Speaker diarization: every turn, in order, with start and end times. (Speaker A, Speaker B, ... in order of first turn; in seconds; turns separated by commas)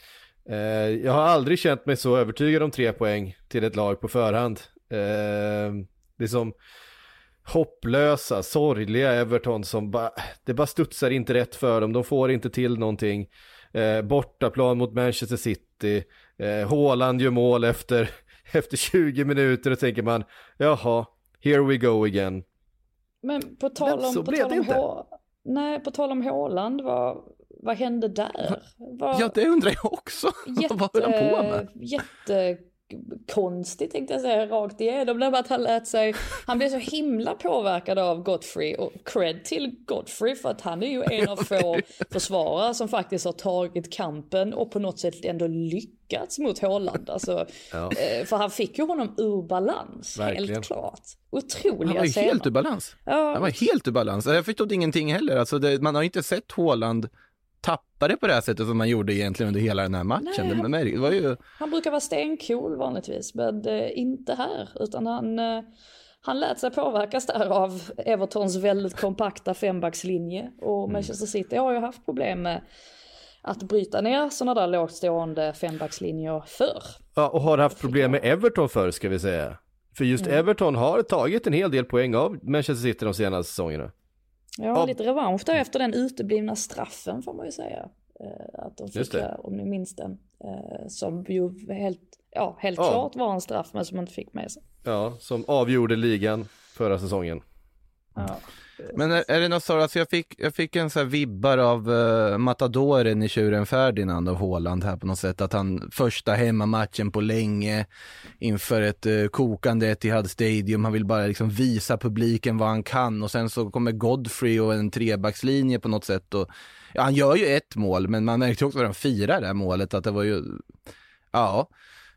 Speaker A: 0.5-6.5, Speaker A: 7.5-22.4, Speaker B: 23.2-29.3, Speaker A: 23.8-24.8, Speaker C: 29.1-31.6, Speaker B: 30.5-52.5, Speaker C: 41.2-41.8, Speaker A: 47.7-48.0, Speaker A: 50.2-50.7, Speaker C: 51.8-57.1, Speaker B: 53.0-53.6, Speaker C: 57.6-61.4, Speaker B: 60.2-60.7, Speaker B: 61.6-65.7, Speaker B: 66.2-72.6, Speaker B: 73.4-77.0, Speaker A: 77.2-83.9, Speaker B: 84.6-94.6, Speaker A: 89.0-89.3, Speaker A: 92.8-93.1, Speaker A: 94.8-97.4, Speaker B: 98.2-98.5, Speaker C: 98.9-107.9, Speaker C: 108.4-120.6, Speaker C: 121.3-121.7